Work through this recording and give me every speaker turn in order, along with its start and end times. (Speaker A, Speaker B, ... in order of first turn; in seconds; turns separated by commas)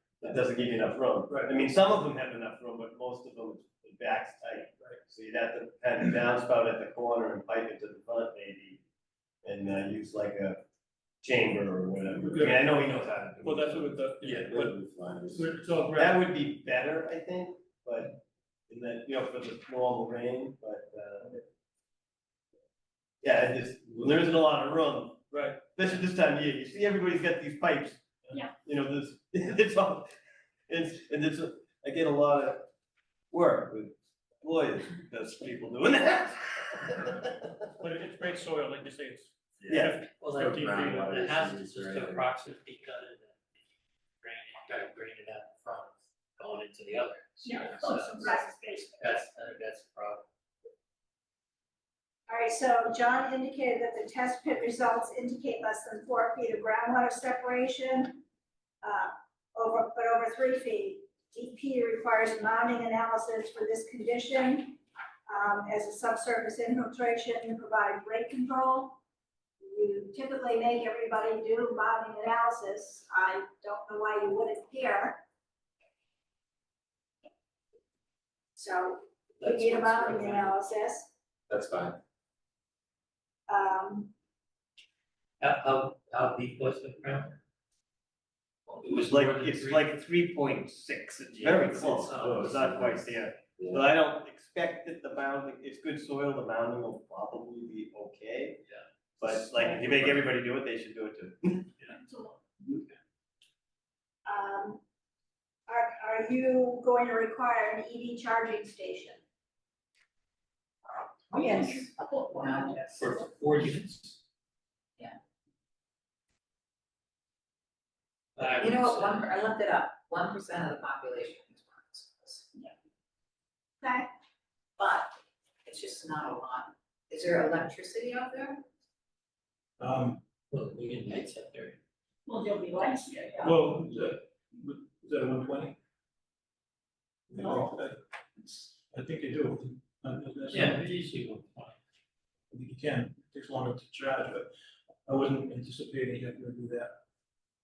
Speaker A: 0.2-8.8, Speaker B: 1.3-1.6, Speaker A: 9.4-10.6, Speaker A: 11.2-13.9, Speaker B: 12.1-14.8, Speaker C: 14.2-15.4, Speaker B: 15.3-16.2, Speaker A: 15.9-21.4, Speaker A: 23.2-28.0, Speaker A: 28.6-30.1, Speaker A: 30.7-32.6, Speaker A: 33.3-37.6, Speaker B: 37.8-41.1, Speaker C: 39.6-42.3, Speaker A: 39.7-40.0, Speaker D: 40.2-43.4, Speaker D: 44.2-48.4, Speaker E: 47.4-49.0, Speaker D: 49.0-50.2, Speaker F: 52.3-58.2, Speaker F: 58.8-69.0, Speaker F: 69.6-75.2, Speaker F: 78.5-81.1, Speaker D: 79.4-80.5, Speaker C: 81.5-82.0, Speaker F: 83.5-84.1, Speaker D: 85.4-87.4, Speaker D: 88.7-89.9, Speaker A: 88.8-98.6, Speaker C: 91.4-93.8, Speaker D: 91.5-92.7, Speaker A: 99.2-101.7, Speaker E: 101.9-102.7, Speaker F: 104.2-104.8, Speaker F: 105.7-109.2, Speaker E: 111.3-113.3, Speaker G: 111.3-113.0, Speaker D: 112.9-114.2, Speaker D: 118.3-119.3, Speaker G: 118.6-122.5, Speaker F: 123.8-124.1, Speaker G: 124.8-128.6, Speaker B: 129.8-130.2, Speaker D: 130.5-131.8, Speaker E: 132.2-133.6, Speaker B: 133.4-135.8, Speaker B: 137.3-140.8, Speaker E: 137.4-137.7, Speaker D: 140.5-141.8, Speaker B: 142.5-144.5, Speaker B: 145.1-147.0